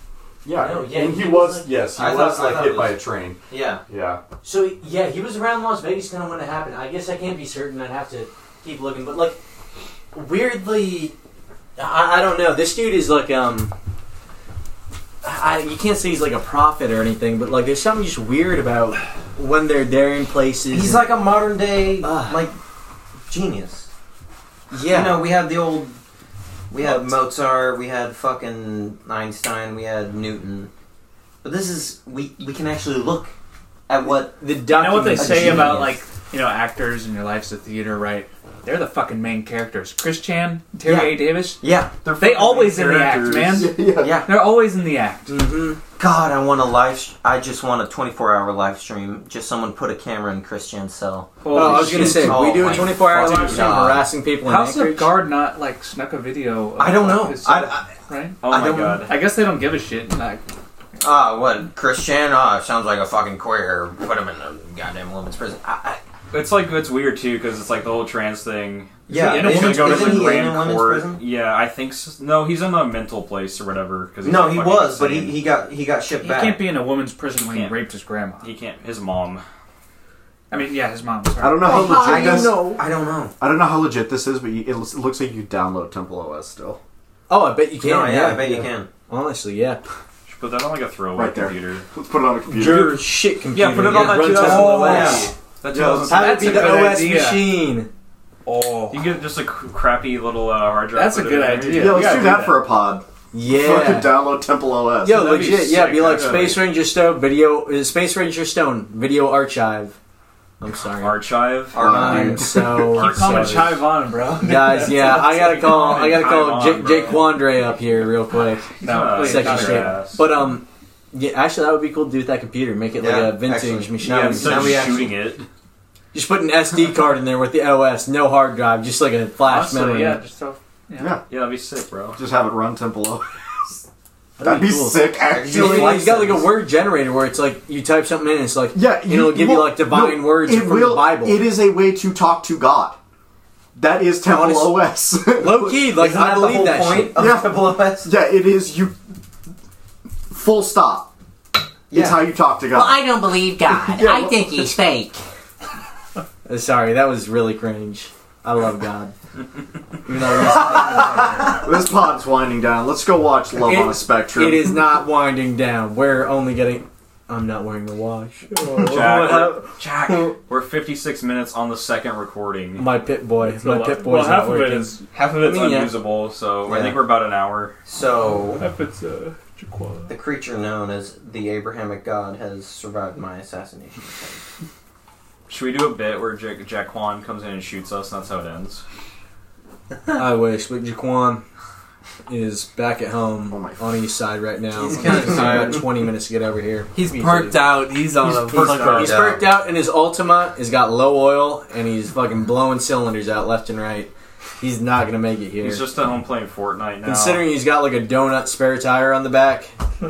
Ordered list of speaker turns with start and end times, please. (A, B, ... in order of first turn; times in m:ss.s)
0:00.4-0:04.2 A
0:00.5-0:01.8 B
0:01.9-0:03.8 C
0:04.4-0:09.4 B
0:10.1-0:11.1 B
0:11.8-0:13.7 B
0:15.2-0:21.0 B
0:20.7-0:22.6 C
0:22.0-0:22.4 B
0:23.3-0:23.9 C
0:24.7-0:25.2 B
0:24.8-0:26.0 C
0:26.7-0:30.7 C
0:26.8-0:27.1 B
0:31.4-0:33.3 C
0:33.9-0:34.4 C
0:34.4-0:36.0 B
0:34.7-0:41.6 D
0:35.1-0:35.9 C
0:40.8-0:42.0 C
0:42.1-0:43.2 E
0:42.2-0:45.4 D
0:43.3-0:44.2 A
0:44.0-0:44.4 C
0:45.3-0:45.8 B
0:46.0-0:54.1 C
0:51.4-0:53.8 D
0:51.5-0:55.2 B
0:54.4-1:00.4 D
0:56.8-0:57.9 C
0:58.4-0:59.2 E
1:01.0-1:06.0 C
1:06.3-1:15.4 E
1:09.1-1:11.2 C
1:09.2-1:10.4 D
1:14.2-1:16.7 C
1:16.2-1:18.5 D
1:17.3-1:17.8 E
1:18.4-1:19.4 E
1:20.5-1:22.0 D
1:21.4-1:22.6 A
1:21.6-1:22.8 B
1:21.9-1:23.3 C
1:23.4-1:26.8 A
1:27.3-1:29.8 B
1:27.8-1:28.9 C
1:30.3-1:31.8 E
1:31.1-1:33.0 A
1:32.5-1:35.3 B
1:32.6-1:33.0 E
1:33.5-1:36.4 E
1:33.9-1:35.3 C
1:34.4-1:35.3 D
1:35.7-1:36.1 A
1:36.0-1:37.6 D
1:36.1-1:36.9 C
1:36.1-1:37.9 B
1:38.4-1:39.1 D
1:38.9-1:42.4 E
1:40.9-1:42.7 D
1:41.7-1:45.3 A
1:43.3-1:44.3 B
1:45.0-1:50.0 B
1:45.2-1:45.6 D
1:45.5-1:46.6 E
1:50.6-2:05.1 B
1:51.0-1:51.8 E
1:51.7-1:52.5 C
1:51.7-1:52.8 A
1:52.7-1:55.7 D
1:53.0-1:53.6 E
1:55.6-1:57.4 E
1:58.8-2:00.2 D
1:58.8-2:00.2 E
2:03.0-2:05.2 C
2:04.0-2:05.4 E
2:06.1-2:10.2 B
2:09.4-2:11.2 D
2:11.2-2:12.2 E
2:12.2-2:13.2 A
2:14.4-2:21.5 B
2:14.4-2:16.2 A
2:15.2-2:16.6 C
2:18.7-2:23.0 A
2:23.8-2:25.9 A
2:24.2-2:27.2 B
2:25.8-2:28.1 C
2:27.1-2:28.9 A
2:30.3-2:31.1 A
2:31.9-2:32.3 C
2:31.9-2:33.1 A
2:32.7-2:35.2 F
2:33.7-2:34.7 A
2:36.4-2:39.1 B
2:40.0-2:41.6 B
2:40.4-2:44.9 A
2:43.6-2:49.6 B
2:48.6-2:49.2 D
2:48.8-2:52.9 E
2:52.8-2:56.0 B
2:53.4-2:55.1 D
2:55.1-2:57.8 E
2:56.6-2:57.3 C
2:57.8-2:58.7 C
2:58.2-3:00.1 D
3:00.1-3:04.4 C
3:05.5-3:08.8 E
3:10.1-3:11.4 B
3:12.3-3:17.7 B
3:13.5-3:13.8 A
3:15.0-3:15.8 G
3:15.0-3:15.5 C
3:16.9-3:19.1 G
3:18.2-3:19.5 C
3:18.6-3:19.1 E
3:18.6-3:25.9 B
3:25.6-3:27.4 E
3:27.0-3:29.7 B